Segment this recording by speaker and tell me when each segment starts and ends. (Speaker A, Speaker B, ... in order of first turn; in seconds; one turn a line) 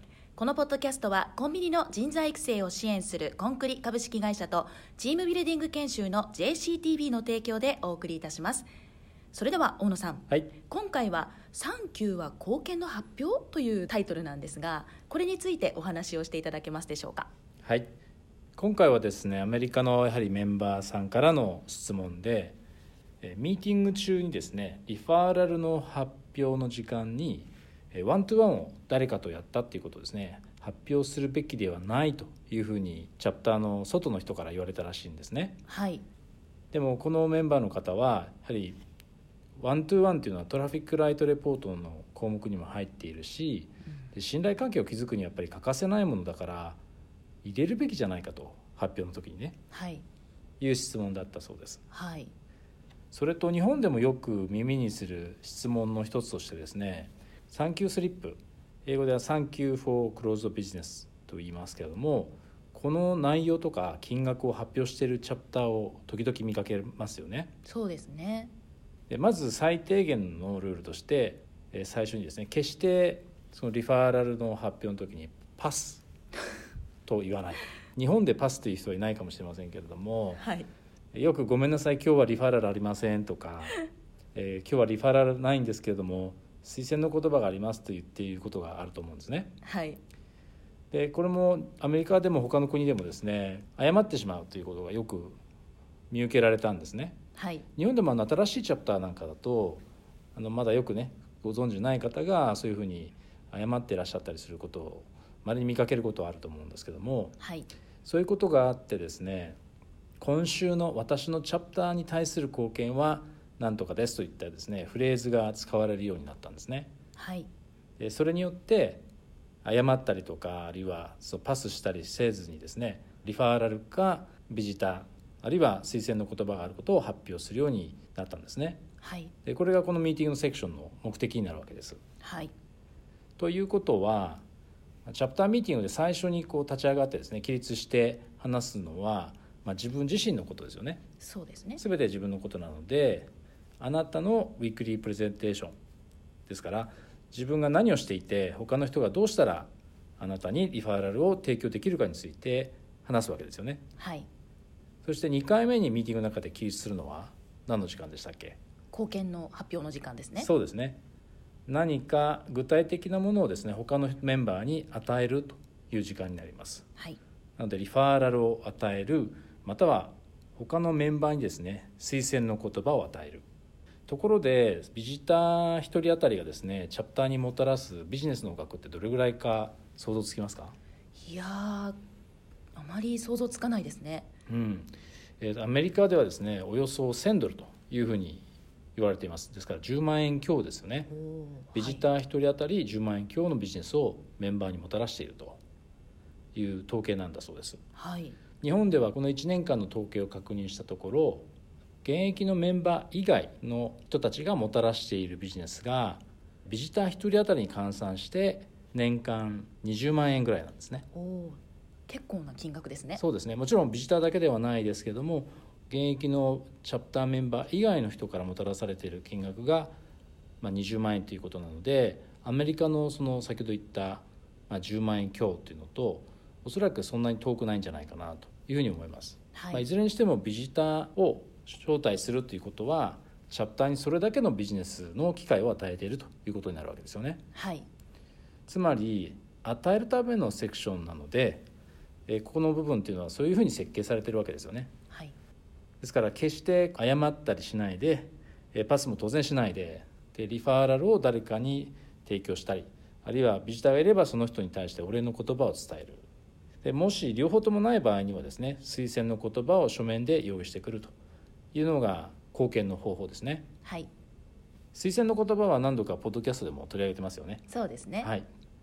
Speaker A: 0.4-8.7
Speaker A: 9.3-17.3
Speaker B: 17.6-17.9
Speaker B: 18.6-22.6
Speaker B: 23.2-35.6
Speaker A: 35.7-36.0
Speaker B: 36.7-38.8
Speaker B: 39.6-46.8
Speaker B: 47.4-49.6
Speaker A: 49.7-50.0
Speaker B: 50.6-51.8
Speaker A: 51.9-52.3
Speaker B: 53.1-67.5
Speaker A: 67.7-68.5
Speaker B: 69.1-76.1
Speaker B: 77.1-80.4
Speaker A: 80.4-80.7
Speaker B: 81.1-83.8
Speaker B: 84.3-89.5
Speaker A: 89.6-90.0
Speaker B: 90.9-95.4
Speaker B: 96.1-97.2
Speaker A: 97.4-97.7
Speaker B: 97.8-99.8
Speaker B: 100.3-107.3
Speaker A: 107.4-107.7
Speaker B: 108.0-109.6
Speaker B: 110.2-116.9
Speaker A: 117.2-117.5
Speaker B: 118.0-119.1
Speaker B: 119.6-128.8
Speaker A: 129.0-129.3
Speaker B: 129.4-132.0
Speaker A: 132.2-132.5
Speaker B: 133.4-134.4
Speaker B: 135.1-141.0
Speaker A: 141.2-141.8
Speaker B: 141.8-145.8
Speaker B: 146.5-153.8
Speaker A: 154.0-154.2
Speaker B: 155.0-158.6
Speaker A: 158.9-160.5
Speaker B: 160.4-161.0
Speaker B: 161.7-166.8
Speaker B: 167.6-173.4
Speaker B: 174.1-180.8
Speaker A: 181.2-182.0
Speaker A: 182.8-184.3
Speaker B: 184.5-191.1
Speaker A: 191.1-192.0
Speaker B: 191.7-195.6
Speaker B: 196.6-197.8
Speaker A: 198.0-198.4
Speaker B: 198.6-201.5
Speaker B: 202.0-211.1
Speaker A: 211.1-213.2
Speaker B: 213.2-220.0
Speaker B: 220.6-237.4
Speaker A: 229.5-229.8
Speaker A: 237.5-237.8
Speaker B: 238.7-241.7
Speaker B: 242.3-244.9
Speaker B: 246.0-256.2
Speaker B: 256.8-261.1
Speaker B: 261.7-263.6
Speaker A: 263.8-264.1
Speaker B: 264.9-267.6
Speaker A: 267.7-268.3
Speaker B: 268.2-268.4